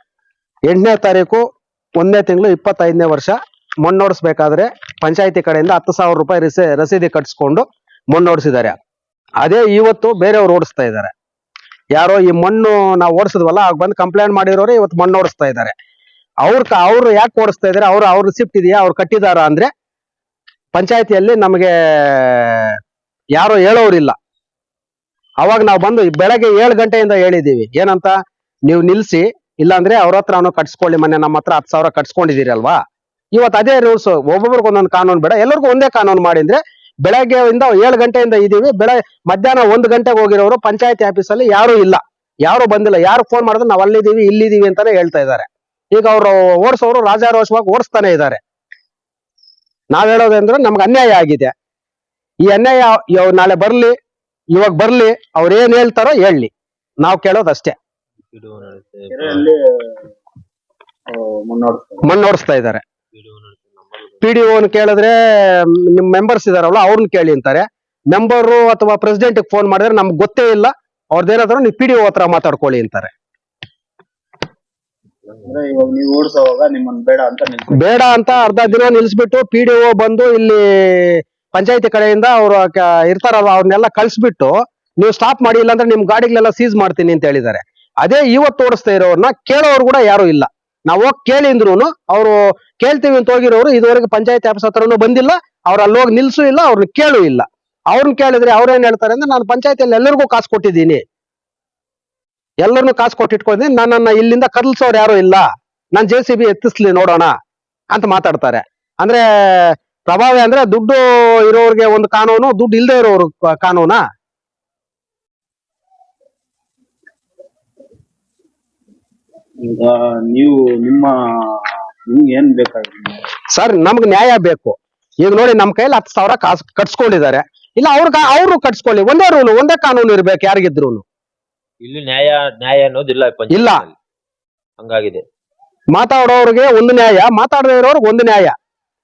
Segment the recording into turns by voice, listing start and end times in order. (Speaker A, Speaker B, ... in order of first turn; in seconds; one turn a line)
Speaker A: 0.7-1.4
Speaker A: 2.0-8.8
Speaker A: 9.4-11.1
Speaker A: 11.9-15.7
Speaker A: 16.4-19.7
Speaker A: 20.7-22.8
Speaker A: 23.3-24.1
Speaker A: 25.4-32.8
Speaker A: 33.3-48.4
Speaker A: 49.9-51.5
Speaker A: 52.4-54.0
Speaker A: 54.5-57.7
Speaker B: 58.3-59.5
Speaker C: 59.1-60.1
Speaker C: 61.1-62.1
Speaker A: 62.0-62.8
Speaker B: 63.1-64.2
Speaker A: 64.2-73.1
Speaker C: 75.4-78.9
Speaker A: 77.7-101.0
Speaker A: 102.6-107.3
Speaker A: 107.9-114.0
Speaker C: 119.6-123.2
Speaker A: 123.5-131.0
Speaker B: 131.8-133.9
Speaker A: 133.5-133.8
Speaker B: 134.8-135.2
Speaker A: 135.9-138.5